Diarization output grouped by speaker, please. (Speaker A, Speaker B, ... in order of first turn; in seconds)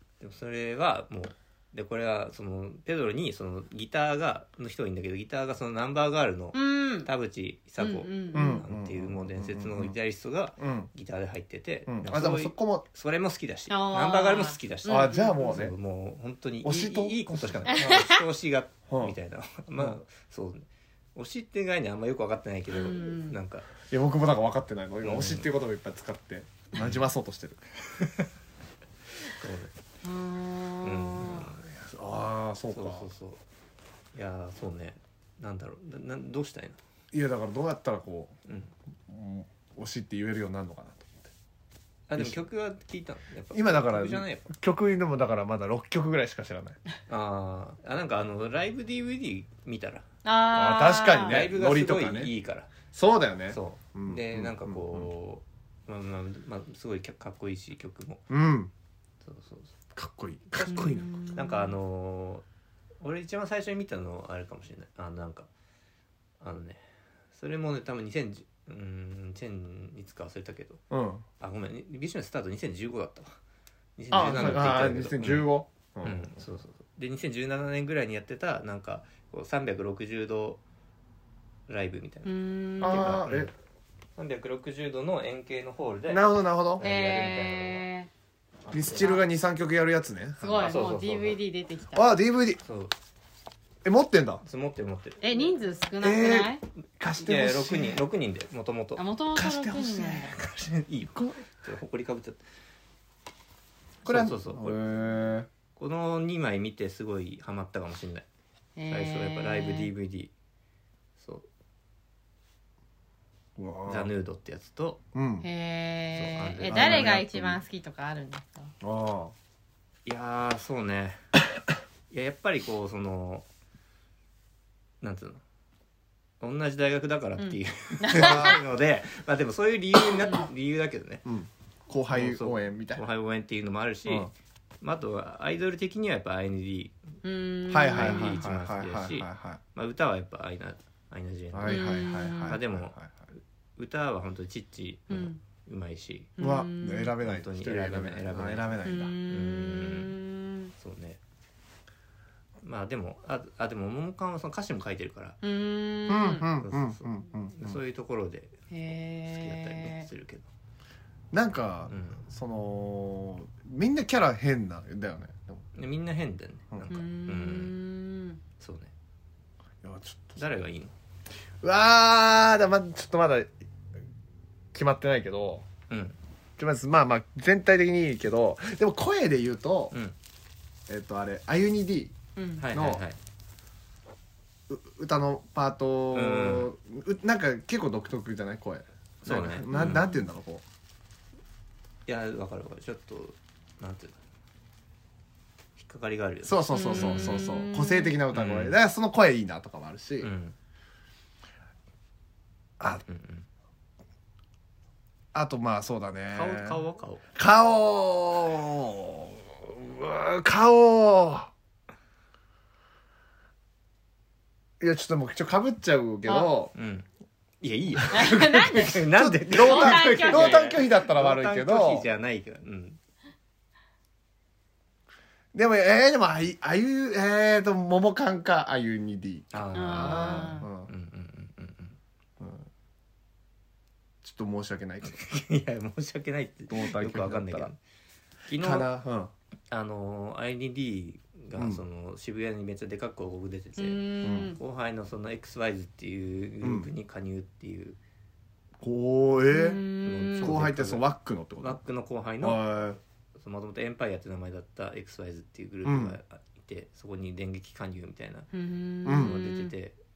Speaker A: 0.2-23.7, 25.0-25.5, 26.8-27.1, 28.0-28.3, 29.2-29.7, 30.8-31.6, 32.7-33.4, 34.1-36.8, 38.5-38.7, 42.1-44.5, 47.1-50.0, 51.2-52.7, 53.5-58.2, 59.2-59.7, 60.6-62.5, 63.0-65.5, 66.4-70.8, 71.4-73.4, 74.0-75.5, 76.0-80.6, 81.7-83.5, 84.2-86.2, 86.8-87.9, 88.7-89.2, 90.6-91.4, 92.6-92.9, 94.4-95.5, 97.2-99.0, 100.3-102.4, 104.0-104.8, 105.8-108.3, 108.9-110.3, 111.2-111.5, 113.9-115.0, 116.2-117.6, 120.1-121.2, 122.1-123.5, 125.0-125.4, 126.4-131.2, 132.1-137.0, 137.9-143.0, 143.8-146.3, 147.2-150.2, 150.8-151.2, 152.6-155.4, 156.6-158.6, 159.3-160.5, 161.9-162.2, 165.8-167.8, 168.6-168.9, 170.4-170.9, 175.9-176.2, 182.6-183.2, 186.1-186.7, 189.2-190.1, 192.1-194.2, 195.8-197.5, 198.3-198.8, 200.2-200.6, 203.1-203.5, 206.3-207.2, 216.7-217.1, 217.6-223.0, 229.5-232.0, 235.1-237.8, 238.5-238.9, 239.7-248.0, 250.0-251.1, 251.6-252.7, 253.4-258.5, 259.1-260.0
Speaker B: 6.5-7.1, 7.8-8.6, 13.7-15.6, 17.7-18.2, 22.7-23.4, 30.0-31.5, 50.2-51.4, 60.7-61.7, 82.2-83.2, 86.8-88.1, 90.4-92.1, 95.2-96.6, 99.0-100.3, 108.8-109.9, 115.4-118.7, 127.4-128.6, 137.2-138.4, 141.7-142.6, 145.1-145.4, 146.4-147.1, 148.8-150.7, 155.4-156.5, 158.7-160.1, 166.9-168.4, 182.4-182.7, 189.7-190.2, 196.7-198.2, 218.1-220.8, 229.7-230.7, 243.8-244.6, 249.5-250.7, 258.5-259.7
Speaker C: 8.3-10.0, 10.6-10.9, 11.9-12.8, 14.9-15.7, 16.6-18.0, 18.9-19.1, 23.9-27.6, 31.4-33.1, 37.1-38.3, 39.1-41.3, 42.1-42.4, 43.5-46.8, 50.5-52.3, 52.9-55.1, 58.3-58.7, 59.9-61.1, 70.9-71.2, 74.1-76.3, 82.8-83.5, 86.1-86.8, 88.7-90.8, 91.9-92.6, 93.8-94.4, 96.0-98.0, 99.3-100.3, 101.1-101.4, 104.0-105.5, 113.6-114.1, 115.1-115.5, 116.7-117.3, 118.8-119.3, 128.1-128.6, 131.2-133.1, 137.7-139.6, 141.5-143.2, 146.4-149.2, 156.1-157.8, 161.3-165.6, 169.8-170.4, 171.6-173.5, 174.7-175.7, 176.6-179.9, 180.9-182.2, 182.7-183.0, 184.7-190.6, 196.4-200.3, 205.3-206.8, 207.3-211.5, 214.8-216.7, 218.0-218.3, 219.0-222.1, 225.5-230.9, 232.4-232.7, 234.2-235.2, 236.7-237.7, 238.6-239.3, 241.6-241.8, 244.2-244.6, 246.6-246.9, 248.8-249.8, 250.4-251.8, 252.4-253.0, 255.8-256.2, 259.1-259.4